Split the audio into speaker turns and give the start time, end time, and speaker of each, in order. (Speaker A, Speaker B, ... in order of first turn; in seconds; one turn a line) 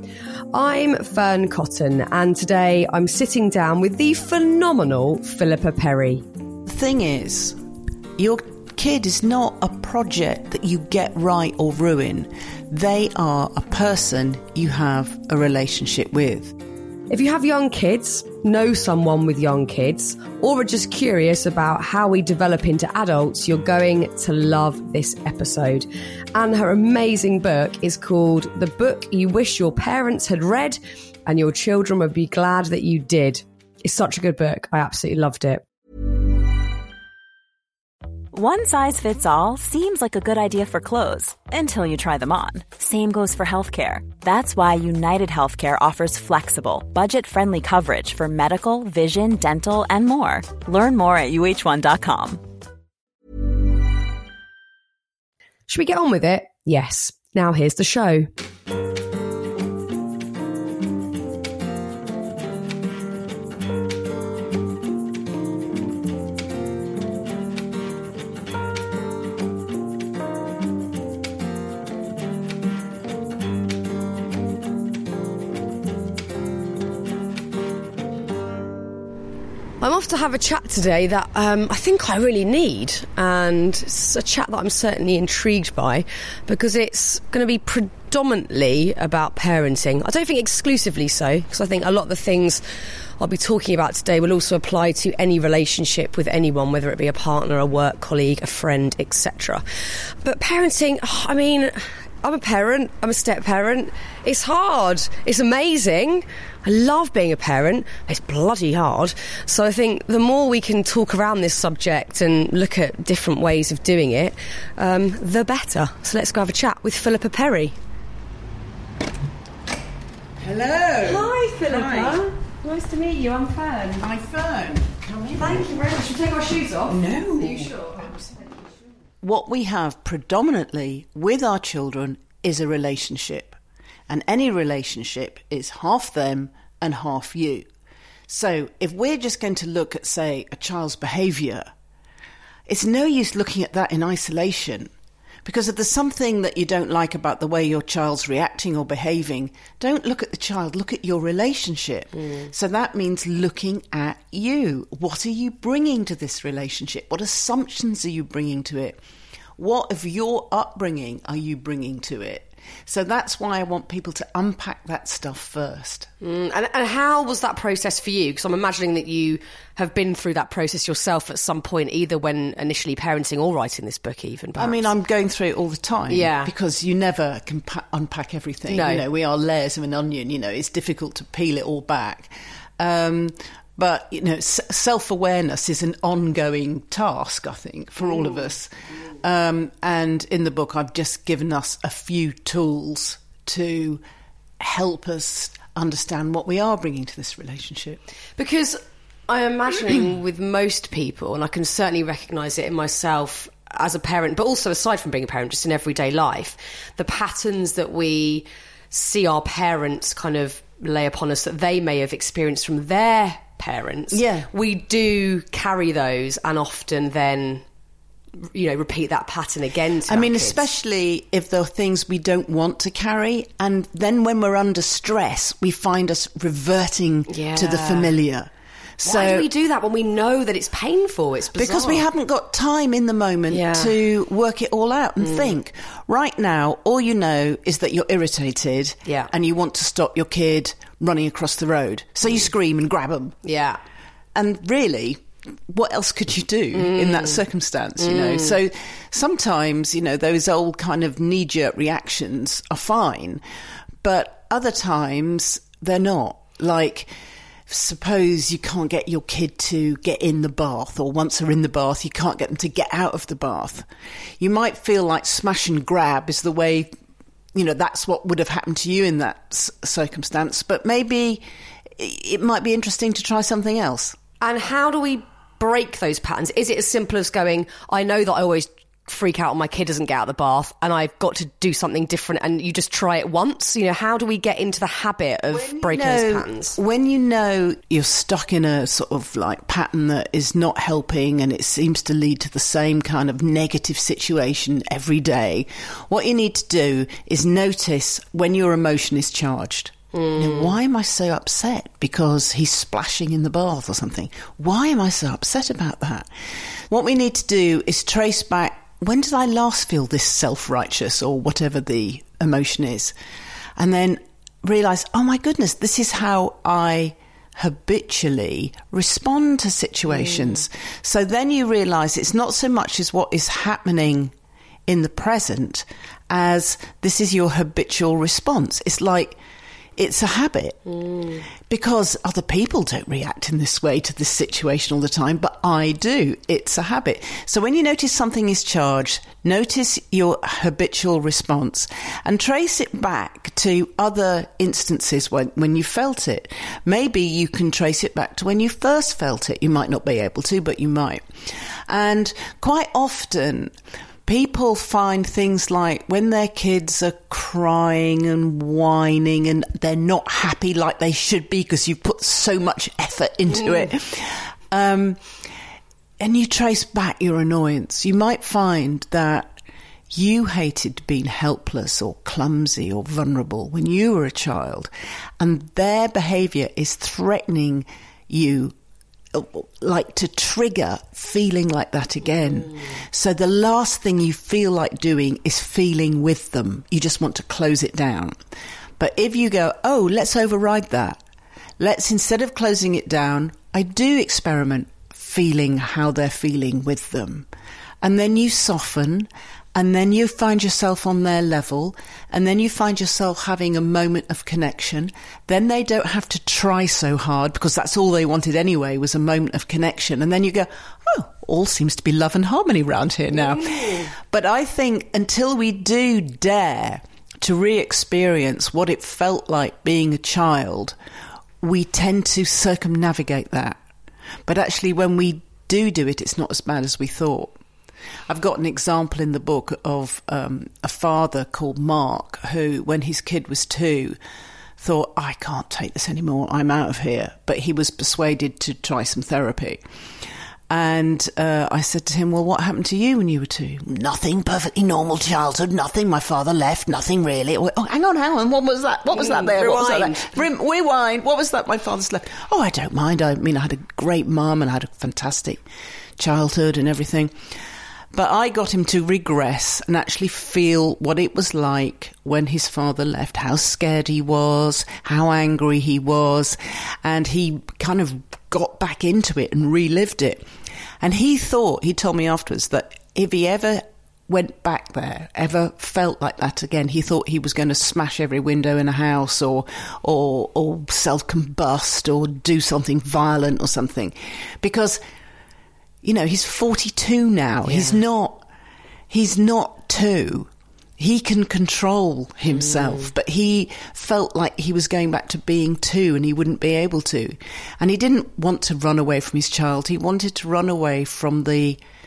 Speaker A: 0.5-6.2
Speaker B: 6.7-7.6
Speaker B: 8.2-16.5
Speaker A: 17.1-35.6
Speaker C: 38.3-52.4
Speaker A: 55.7-58.3
Speaker A: 79.8-92.6
Speaker A: 93.2-99.6
Speaker A: 100.2-117.8
Speaker B: 120.4-122.2
Speaker A: 121.0-124.0
Speaker B: 124.0-125.7
Speaker A: 125.3-128.1
Speaker B: 126.9-128.4
Speaker B: 129.2-133.6
Speaker B: 134.1-137.7
Speaker B: 138.3-141.7
Speaker B: 142.7-144.9
Speaker B: 145.4-159.0
Speaker B: 159.6-166.1
Speaker A: 166.2-174.9
Speaker B: 174.6-194.0
Speaker A: 176.1-176.5
Speaker A: 178.7-179.0
Speaker B: 194.6-198.0
Speaker A: 198.4-217.6
Speaker B: 214.1-214.5
Speaker A: 218.4-220.6
Speaker B: 220.1-229.5
Speaker A: 227.3-228.1
Speaker A: 229.0-232.1
Speaker B: 231.5-243.4
Speaker A: 233.5-233.9
Speaker A: 239.0-239.3
Speaker A: 243.4-243.8
Speaker B: 244.3-253.4
Speaker A: 246.7-247.4
Speaker A: 248.0-248.5
Speaker B: 254.0-257.1
Speaker B: 257.7-263.9
Speaker B: 264.4-266.9
Speaker B: 267.5-271.4
Speaker B: 272.0-274.2
Speaker A: 274.4-286.8
Speaker B: 285.5-306.3
Speaker A: 300.1-300.7
Speaker B: 306.9-313.1
Speaker B: 313.8-324.3
Speaker B: 324.9-329.4
Speaker B: 330.0-330.8
Speaker A: 331.0-331.4
Speaker B: 331.6-351.2
Speaker B: 351.9-353.7
Speaker B: 354.2-365.2
Speaker B: 366.2-369.6
Speaker B: 370.1-378.7
Speaker B: 379.3-388.4
Speaker B: 389.0-391.2
Speaker B: 391.8-397.5
Speaker B: 398.0-420.9
Speaker B: 421.6-423.8
Speaker B: 424.4-427.5
Speaker B: 428.3-434.2
Speaker B: 434.8-439.8
Speaker B: 440.7-455.6
Speaker A: 449.1-450.4
Speaker B: 456.2-457.3
Speaker B: 458.1-470.4
Speaker B: 471.0-485.0
Speaker B: 486.0-488.4
Speaker A: 487.6-488.0
Speaker B: 489.1-501.8